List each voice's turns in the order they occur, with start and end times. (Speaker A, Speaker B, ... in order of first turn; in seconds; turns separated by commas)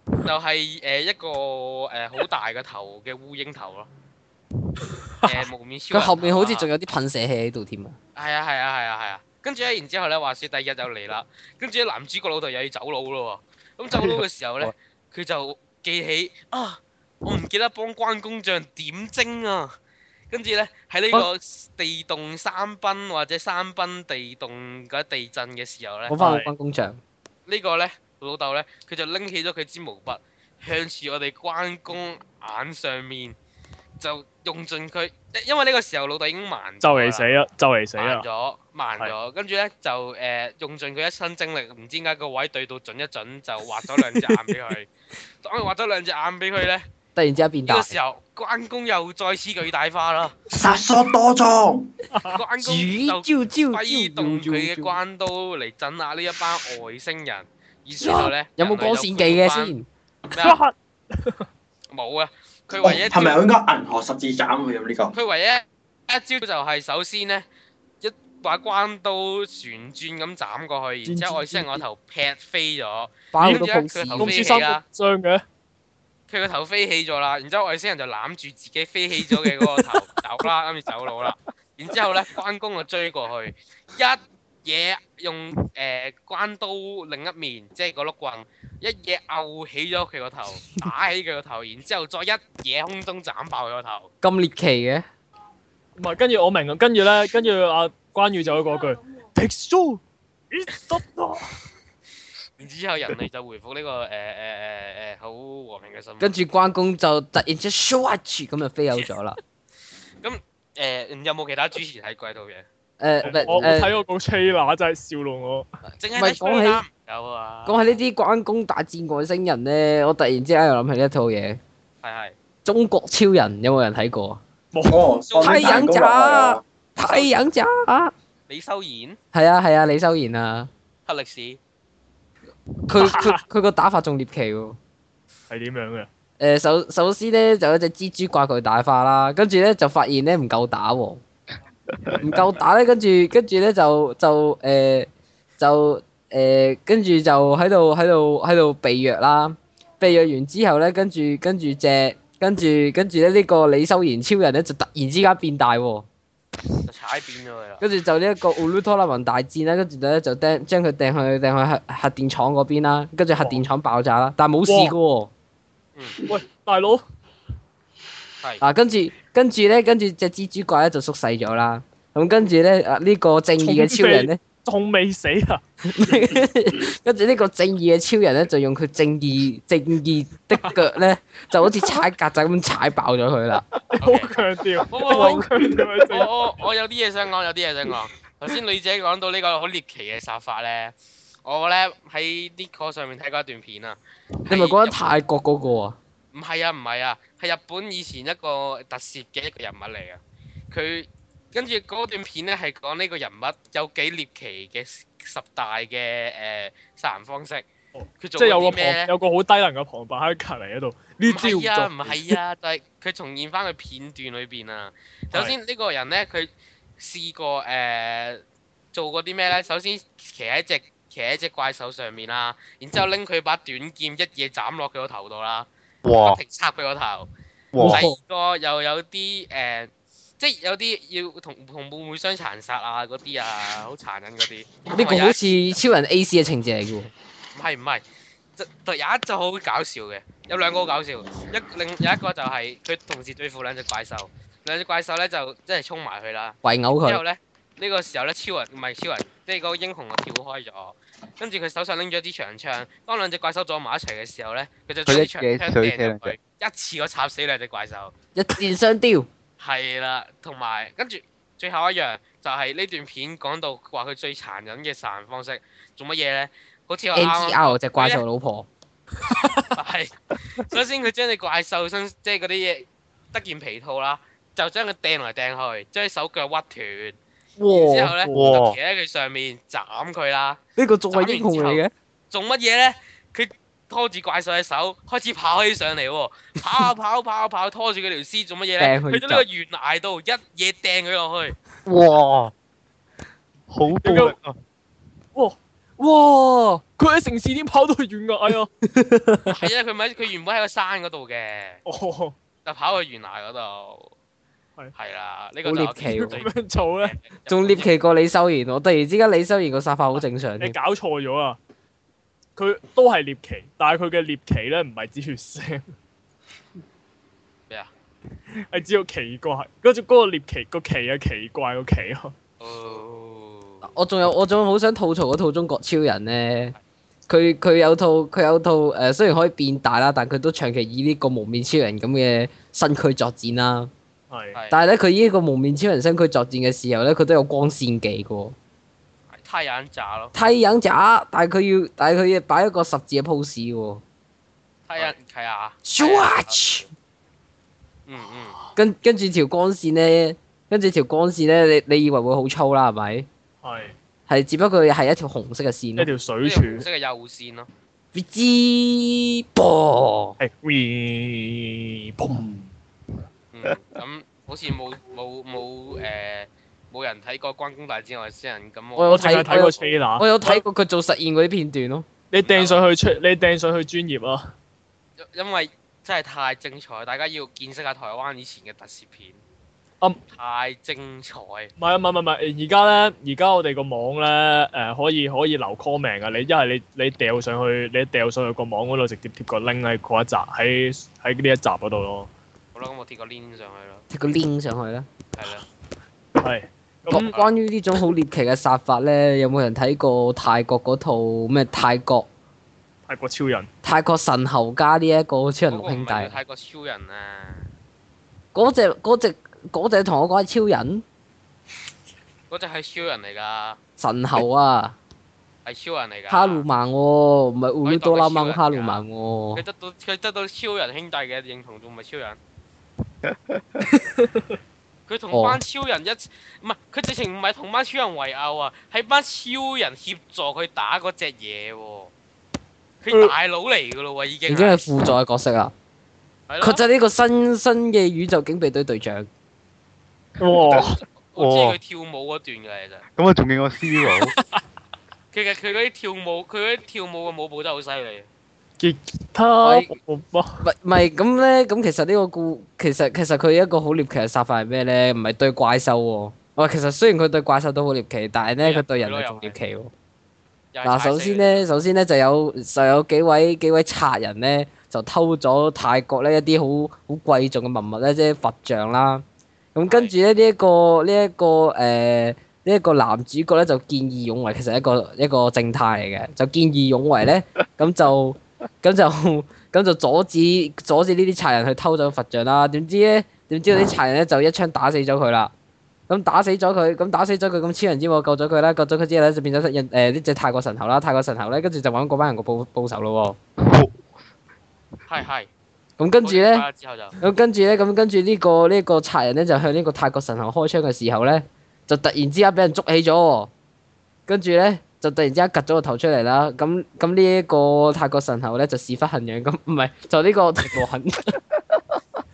Speaker A: 0.2-3.9, Speaker A: 5.2-6.7, Speaker B: 5.9-8.0, Speaker A: 8.2-19.8, Speaker C: 13.9-14.7, Speaker A: 20.3-26.2, Speaker B: 26.1-27.0, Speaker D: 26.2-26.5, Speaker A: 27.5-33.4, Speaker A: 34.0-37.3, Speaker D: 36.8-38.3, Speaker A: 38.0-44.9, Speaker D: 44.0-44.5, Speaker A: 45.4-46.9, Speaker B: 47.2-47.9, Speaker A: 47.7-50.3, Speaker E: 50.5-51.9, Speaker D: 52.1-52.4, Speaker A: 52.2-59.8, Speaker B: 52.6-55.0, Speaker B: 58.0-59.9, Speaker A: 60.3-60.6, Speaker D: 60.4-61.5, Speaker A: 61.9-63.4, Speaker E: 62.8-65.2, Speaker A: 65.1-67.5, Speaker A: 68.0-74.8, Speaker D: 71.0-71.6, Speaker B: 73.3-74.7, Speaker D: 74.2-75.4, Speaker A: 76.3-94.1, Speaker B: 94.2-95.0, Speaker D: 96.0-101.5, Speaker A: 102.6-106.3, Speaker B: 106.2-109.4, Speaker A: 110.2-112.7, Speaker B: 113.0-113.9, Speaker D: 113.2-115.7, Speaker A: 116.0-117.8, Speaker B: 116.1-116.8, Speaker B: 117.7-121.6, Speaker A: 122.0-122.3, Speaker B: 122.7-124.4, Speaker D: 124.7-125.0, Speaker E: 124.9-126.6, Speaker A: 125.3-125.8, Speaker B: 125.4-128.1, Speaker A: 127.1-127.3, Speaker A: 128.5-129.2, Speaker B: 129.3-130.7, Speaker A: 131.1-131.6, Speaker B: 132.8-134.8, Speaker D: 133.0-133.4, Speaker D: 135.5-136.1, Speaker B: 136.4-141.2, Speaker D: 142.1-142.3, Speaker B: 142.2-145.1, Speaker B: 145.6-156.1, Speaker A: 150.0-150.3, Speaker A: 156.9-157.8, Speaker B: 157.8-165.3, Speaker D: 163.4-163.7, Speaker D: 164.7-165.0, Speaker D: 166.3-167.0, Speaker B: 168.6-174.4, Speaker D: 173.6-176.4, Speaker B: 175.8-183.6, Speaker D: 183.9-186.3, Speaker A: 184.0-184.4, Speaker A: 184.9-185.5, Speaker B: 185.1-185.5, Speaker A: 186.1-195.0, Speaker B: 194.5-196.0, Speaker A: 196.3-200.2, Speaker A: 200.7-207.7, Speaker D: 207.9-212.4, Speaker A: 208.2-209.1, Speaker A: 211.2-218.4, Speaker A: 218.9-227.3, Speaker C: 226.1-226.4, Speaker C: 227.7-228.1, Speaker B: 227.8-228.2, Speaker A: 227.8-235.6, Speaker B: 234.9-237.1, Speaker A: 237.6-238.0, Speaker A: 238.6-258.1, Speaker B: 246.6-247.2, Speaker C: 255.1-256.4, Speaker B: 258.4-259.3, Speaker A: 259.6-268.2, Speaker B: 267.1-268.7, Speaker A: 269.8-277.2, Speaker B: 277.6-278.2, Speaker A: 277.7-280.6, Speaker D: 278.2-278.5, Speaker C: 278.3-278.8, Speaker B: 280.8-281.9, Speaker A: 281.1-291.6, Speaker B: 288.8-289.4, Speaker C: 291.9-292.5, Speaker C: 293.7-294.6, Speaker D: 294.0-294.4, Speaker D: 295.4-298.7, Speaker B: 298.9-299.6, Speaker A: 299.5-301.8, Speaker D: 301.9-302.4, Speaker A: 302.6-304.1, Speaker A: 304.9-307.9, Speaker B: 305.6-306.4, Speaker D: 306.2-307.2, Speaker B: 307.5-310.8, Speaker D: 310.6-311.6, Speaker D: 312.6-315.9, Speaker D: 318.6-322.4, Speaker A: 322.6-323.9, Speaker B: 323.8-326.8, Speaker B: 327.3-333.9, Speaker D: 334.3-334.6, Speaker B: 334.7-338.6, Speaker A: 339.3-340.4, Speaker B: 340.4-344.0, Speaker A: 344.9-346.6, Speaker B: 345.9-346.9, Speaker A: 348.1-348.6, Speaker B: 348.8-353.3, Speaker D: 353.6-353.9, Speaker B: 354.3-356.1, Speaker D: 356.0-356.9, Speaker A: 356.4-357.7, Speaker B: 358.1-360.4, Speaker D: 360.4-362.7, Speaker A: 363.5-369.9, Speaker B: 369.0-372.1, Speaker D: 369.1-370.6, Speaker D: 372.3-374.5, Speaker A: 372.4-372.9, Speaker A: 375.2-379.4, Speaker A: 380.3-381.7, Speaker D: 381.8-392.3, Speaker A: 392.8-394.1, Speaker B: 394.1-395.1, Speaker A: 395.3-395.6, Speaker D: 396.4-397.4, Speaker B: 397.1-402.3, Speaker D: 403.1-403.7, Speaker B: 403.8-406.4, Speaker A: 405.7-407.7, Speaker B: 408.5-411.0, Speaker A: 412.5-413.8, Speaker B: 414.0-415.0, Speaker A: 415.6-416.6, Speaker B: 416.3-419.6, Speaker A: 417.8-419.0, Speaker A: 419.6-422.4, Speaker C: 423.2-423.8, Speaker D: 423.9-424.5, Speaker A: 425.1-432.1, Speaker B: 425.3-425.6, Speaker A: 433.0-434.9, Speaker D: 433.1-433.4, Speaker B: 434.5-435.7, Speaker A: 436.5-436.8, Speaker B: 436.6-439.3, Speaker D: 440.4-441.0, Speaker C: 440.7-441.8, Speaker A: 441.3-443.0, Speaker C: 443.2-444.3, Speaker A: 445.3-448.3, Speaker D: 448.8-450.6, Speaker B: 449.6-450.0, Speaker B: 450.6-459.9, Speaker A: 458.6-459.6, Speaker A: 460.7-461.7, Speaker B: 460.9-469.2, Speaker B: 469.8-485.5, Speaker A: 469.9-470.1, Speaker B: 486.1-493.4, Speaker C: 493.6-494.0, Speaker A: 495.1-495.5, Speaker B: 496.0-496.7, Speaker A: 496.2-497.1, Speaker B: 497.2-503.5, Speaker B: 504.3-511.4